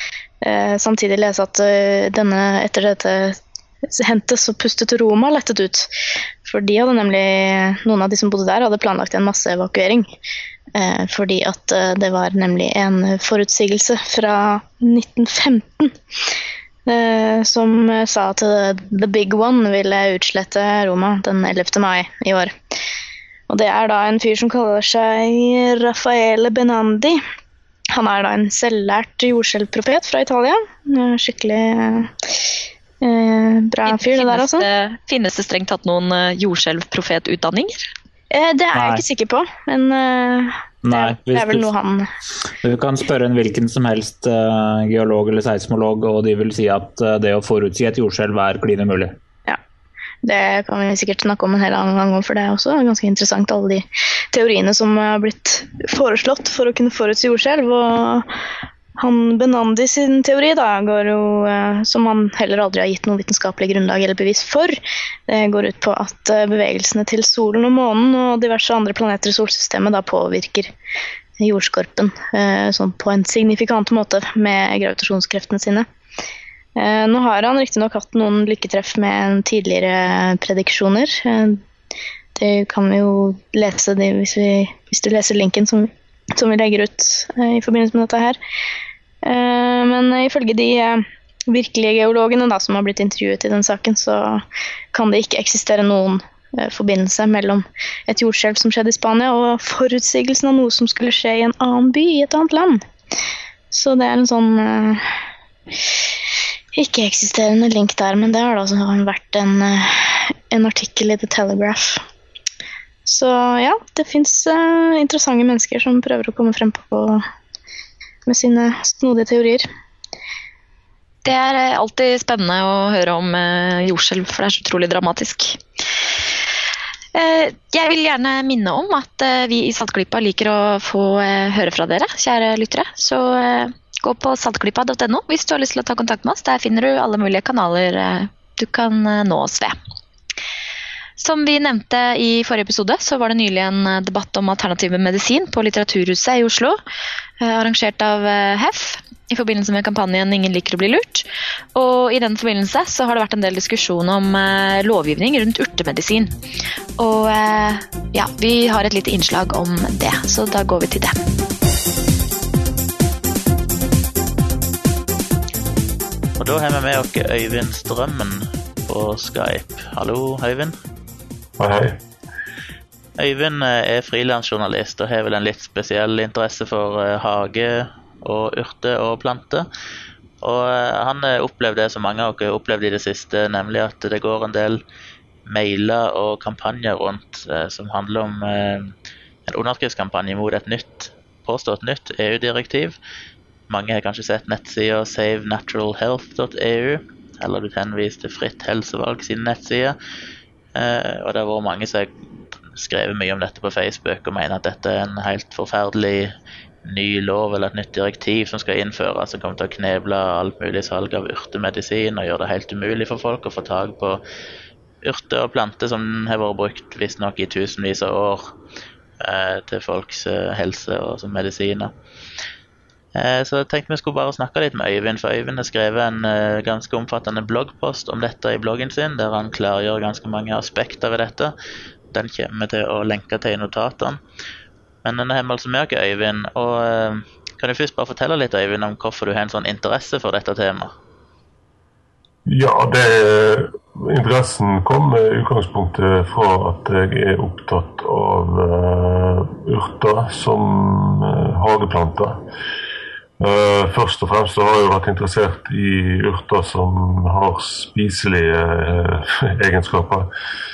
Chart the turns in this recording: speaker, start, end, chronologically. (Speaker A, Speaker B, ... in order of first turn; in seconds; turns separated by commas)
Speaker A: 0.4-3.4, Speaker A: 4.0-5.9, Speaker A: 6.4-10.1, Speaker A: 10.8-15.9, Speaker A: 16.9-22.5, Speaker A: 23.5-27.2, Speaker A: 27.9-32.1, Speaker A: 33.0-34.6, Speaker B: 33.9-37.9, Speaker A: 38.3-42.1, Speaker C: 38.7-39.0, Speaker C: 40.8-41.7, Speaker C: 42.6-49.2, Speaker A: 50.2-58.3, Speaker A: 59.0-64.8, Speaker A: 65.3-70.7, Speaker A: 71.4-75.9, Speaker A: 76.8-81.6, Speaker A: 82.3-88.4, Speaker A: 89.2-102.8, Speaker A: 103.7-105.0, Speaker A: 106.8-112.0, Speaker A: 113.1-117.2, Speaker A: 118.3-119.7, Speaker B: 121.2-125.6, Speaker B: 127.2-139.8, Speaker B: 141.2-146.8, Speaker B: 147.4-156.3, Speaker B: 157.0-161.2, Speaker D: 166.4-170.7, Speaker E: 171.6-172.0, Speaker D: 173.2-179.7, Speaker D: 180.4-184.8, Speaker D: 185.5-188.9, Speaker D: 189.5-193.0, Speaker D: 193.7-200.0, Speaker D: 200.8-206.3, Speaker D: 206.8-214.2, Speaker D: 215.0-218.5, Speaker D: 219.2-221.9, Speaker D: 223.2-231.5, Speaker D: 232.1-234.2, Speaker D: 235.0-240.9, Speaker E: 242.5-252.4, Speaker E: 253.4-260.3